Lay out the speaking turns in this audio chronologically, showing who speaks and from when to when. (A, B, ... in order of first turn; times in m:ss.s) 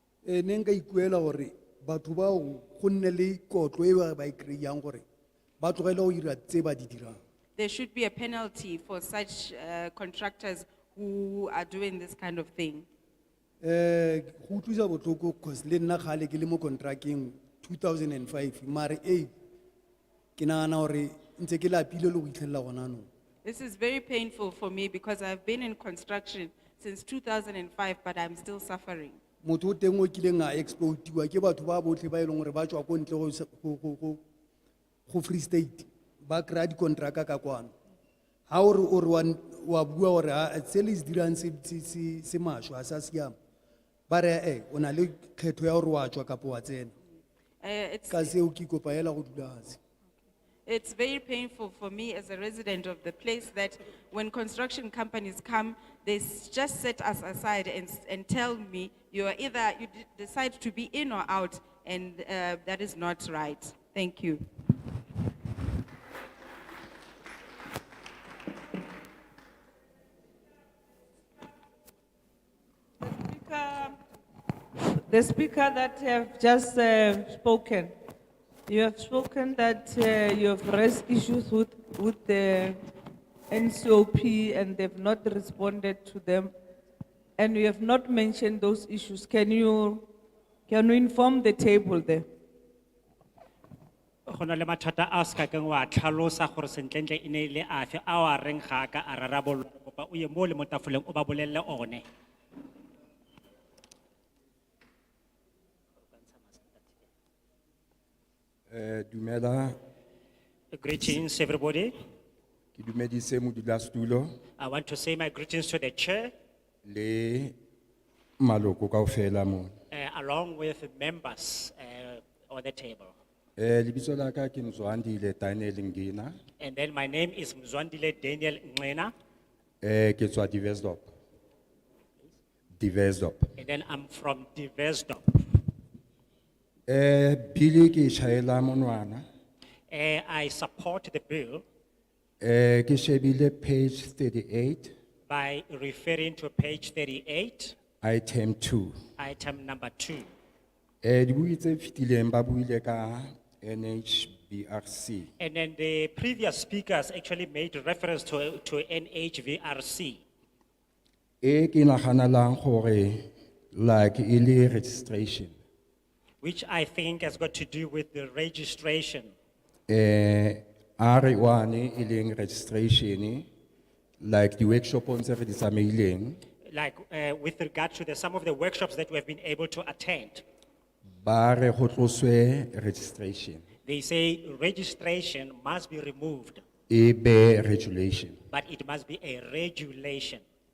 0:00.2-0:05.0 A
0:05.6-0:07.2 A
0:07.6-0:12.8 B
0:13.6-0:19.3 A
0:20.4-0:23.0 A
0:23.4-0:29.2 B
0:29.4-0:34.2 A
0:35.1-0:37.7 A
0:38.5-0:43.3 A
0:44.1-0:46.9 A
0:47.6-0:48.3 B
0:48.1-0:49.8 A
0:50.6-1:04.4 B
1:13.0-1:14.0 C
1:14.8-1:17.9 C
1:18.7-1:22.8 C
1:23.5-1:26.5 C
1:27.4-1:30.0 C
1:30.7-1:32.2 C
1:34.3-1:42.0 D
1:46.2-1:46.9 D
1:48.7-1:49.8 E
1:50.7-1:51.9 D
1:52.7-1:54.3 E
1:54.6-1:56.3 D
1:56.8-1:57.6 E
1:58.4-1:59.7 E
1:59.9-2:03.1 D
2:03.6-2:06.4 E
2:06.6-2:09.1 D
2:09.8-2:11.1 E
2:12.8-2:13.5 E
2:13.6-2:15.4 D
2:16.9-2:19.2 E
2:19.9-2:21.6 D
2:22.4-2:24.9 E
2:25.3-2:27.8 D
2:28.0-2:29.0 E
2:29.2-2:30.3 D
2:31.0-2:35.3 E
2:35.4-2:40.2 D
2:41.4-2:45.5 E
2:46.4-2:49.3 D
2:49.9-2:53.5 E
2:54.2-2:56.4 E
2:56.6-3:00.4 D
3:01.2-3:03.7 E
3:03.8-3:06.6 D
3:06.9-3:08.4 E
3:08.5-3:10.4 D